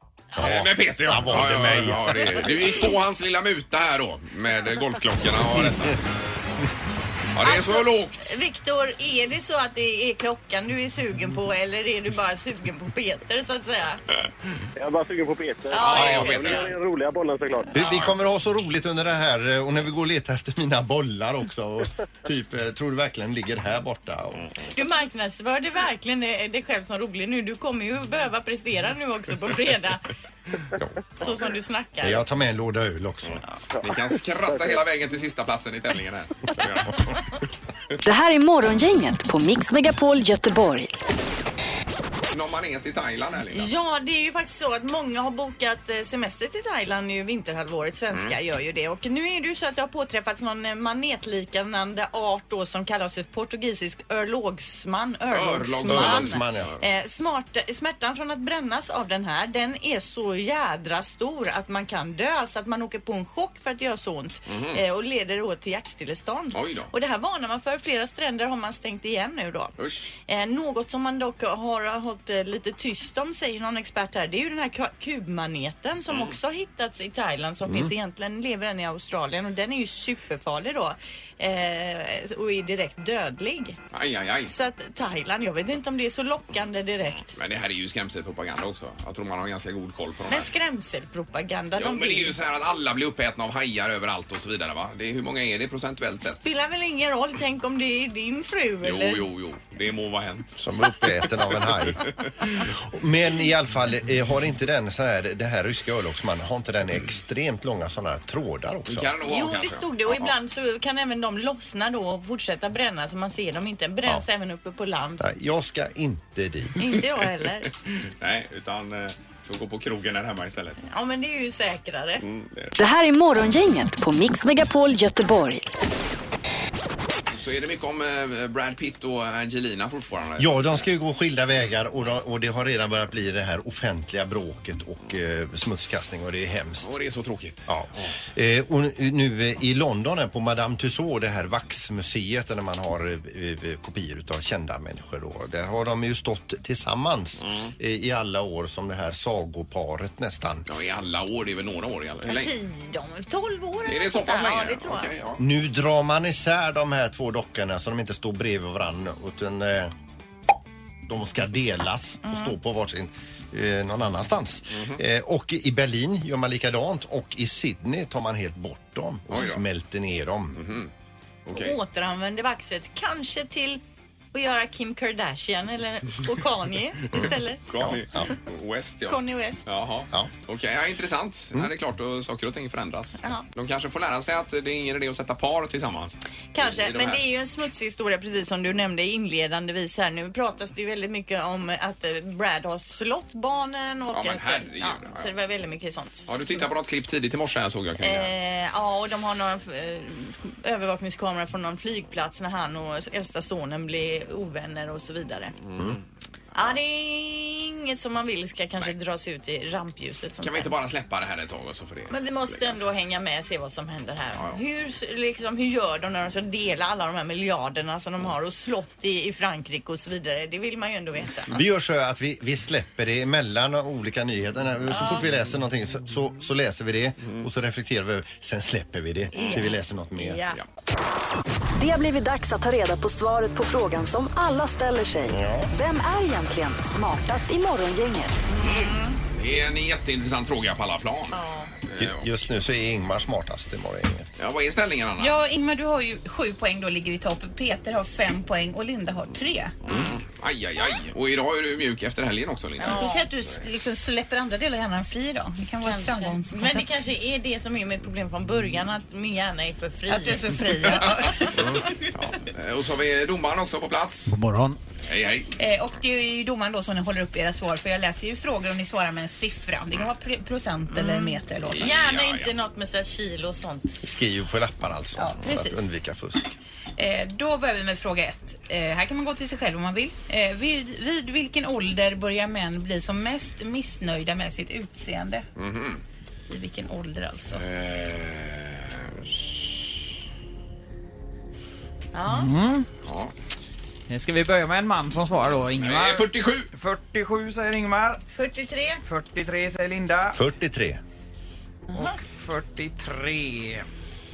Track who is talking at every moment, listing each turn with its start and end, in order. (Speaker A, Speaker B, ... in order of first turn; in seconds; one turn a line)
Speaker A: 0.4-2.6
Speaker B: 0.4-6.0
Speaker A: 5.5-6.0
Speaker B: 7.3-8.3
Speaker C: 7.4-14.0
Speaker D: 14.8-17.7
Speaker C: 15.7-16.7
Speaker B: 15.7-16.7
Speaker A: 17.7-24.4
Speaker B: 17.7-18.1
Speaker C: 24.7-30.0
Speaker C: 31.2-32.2
Speaker A: 32.0-33.4
Speaker B: 33.3-37.1
Speaker E: 38.0-40.9
Speaker B: 42.3-43.7
Speaker C: 43.5-69.7
Speaker B: 55.3-56.8
Speaker A: 55.9-56.7
Speaker B: 64.5-64.8
Speaker B: 66.5-66.9
Speaker B: 69.8-70.1
Speaker C: 70.3-83.8
Speaker A: 77.7-77.9
Speaker B: 83.9-84.5
Speaker C: 84.5-87.3
Speaker B: 87.3-90.5
Speaker C: 90.3-92.3
Speaker B: 91.8-96.5
Speaker C: 96.2-99.2
Speaker B: 98.8-100.6
Speaker A: 100.6-109.1
Speaker B: 101.9-102.6
Speaker B: 108.9-110.3
Speaker C: 109.2-115.3
Speaker A: 115.2-116.8
Speaker C: 116.8-117.7
Speaker B: 117.8-120.8
Speaker C: 120.8-122.2
Speaker B: 122.2-122.8
Speaker E: 122.8-125.6
Speaker B: 127.3-130.8
Speaker A: 130.4-136.9
Speaker B: 136.8-138.2
Speaker A: 137.7-150.7
Speaker B: 147.4-147.7
Speaker B: 150.7-152.5
Speaker C: 152.2-155.1
Speaker B: 153.8-155.4
Speaker A: 155.4-159.9
Speaker A: 161.1-170.6
Speaker C: 162.2-162.5
Speaker B: 164.7-165.0
Speaker B: 169.3-169.6
Speaker B: 170.5-170.9
Speaker B: 171.4-171.8
Speaker C: 171.5-173.8
Speaker C: 174.3-177.6
Speaker B: 177.7-187.2
Speaker A: 177.8-178.3
Speaker C: 179.1-179.7
Speaker C: 186.5-196.7
Speaker B: 194.1-195.3
Speaker B: 196.3-198.3
Speaker C: 198.0-205.5
Speaker B: 205.6-206.0
Speaker C: 206.5-210.7
Speaker B: 210.4-212.8
Speaker C: 212.1-221.6
Speaker B: 214.3-214.6
Speaker A: 221.5-230.4
Speaker C: 224.9-225.2
Speaker C: 229.3-230.6
Speaker E: 231.8-238.5
Speaker A: 235.3-235.7
Speaker C: 238.5-239.2
Speaker B: 238.6-242.3
Speaker C: 241.3-241.7
Speaker A: 242.0-244.3
Speaker B: 244.4-245.4
Speaker F: 245.2-249.8
Speaker B: 249.8-253.1
Speaker C: 252.8-253.3
Speaker F: 252.8-256.9
Speaker C: 255.8-261.7
Speaker F: 260.1-261.8
Speaker B: 261.0-264.3
Speaker G: 264.3-264.8
Speaker B: 265.0-265.5
Speaker F: 265.6-272.0
Speaker C: 270.9-274.0
Speaker B: 271.6-272.5
Speaker A: 274.0-276.6
Speaker F: 275.1-275.9
Speaker F: 277.0-285.4
Speaker B: 285.6-286.0
Speaker F: 286.5-287.6
Speaker B: 287.6-289.6
Speaker C: 292.1-292.5
Speaker G: 292.3-292.9
Speaker B: 293.0-293.3
Speaker G: 294.1-298.2
Speaker B: 295.8-296.7
Speaker C: 298.3-299.0
Speaker G: 299.1-300.4
Speaker A: 300.3-301.0
Speaker G: 301.9-303.9